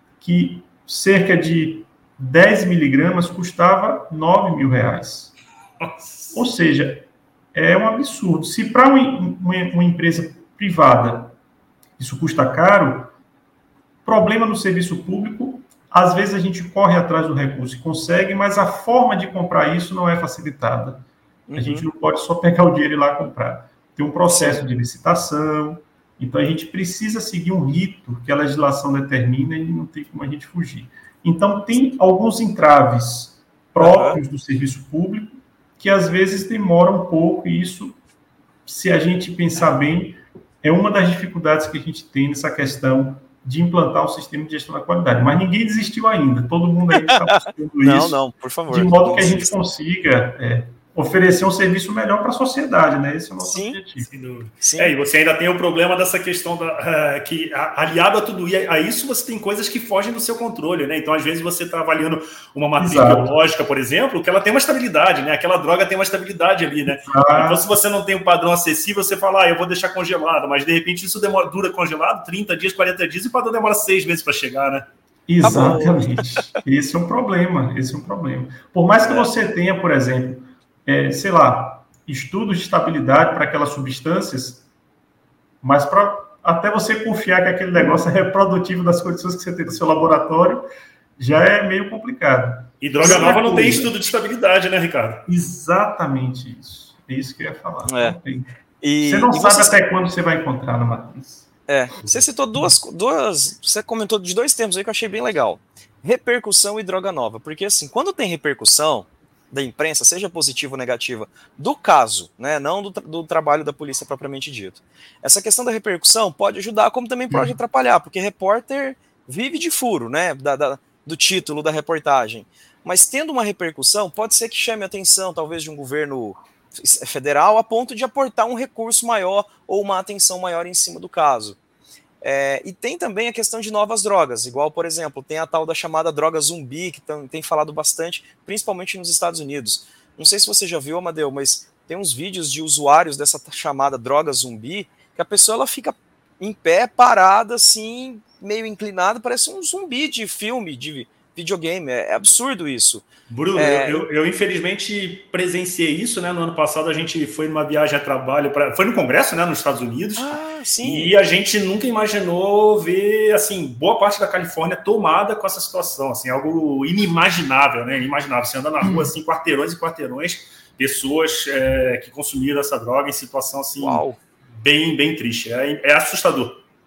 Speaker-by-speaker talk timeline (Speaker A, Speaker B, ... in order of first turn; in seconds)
Speaker A: 0.2-5.3, 6.3-11.3, 12.0-13.1, 14.0-21.0, 21.6-38.0, 38.6-48.2, 48.7-54.1, 62.8-63.3, 67.0-67.6, 75.3-84.6, 85.6-90.6, 91.2-93.9, 95.3-98.5, 99.0-101.5
Speaker B: 5.8-6.3, 54.1-74.8, 92.8-95.2, 153.3-174.0, 174.6-176.6
Speaker C: 21.5-21.9, 24.3-24.6, 33.8-34.2, 47.8-49.5, 53.4-53.8, 54.6-54.9, 75.4-76.2, 97.8-98.2, 98.8-99.8, 101.7-131.6, 132.2-154.1, 160.2-161.1, 173.8-174.2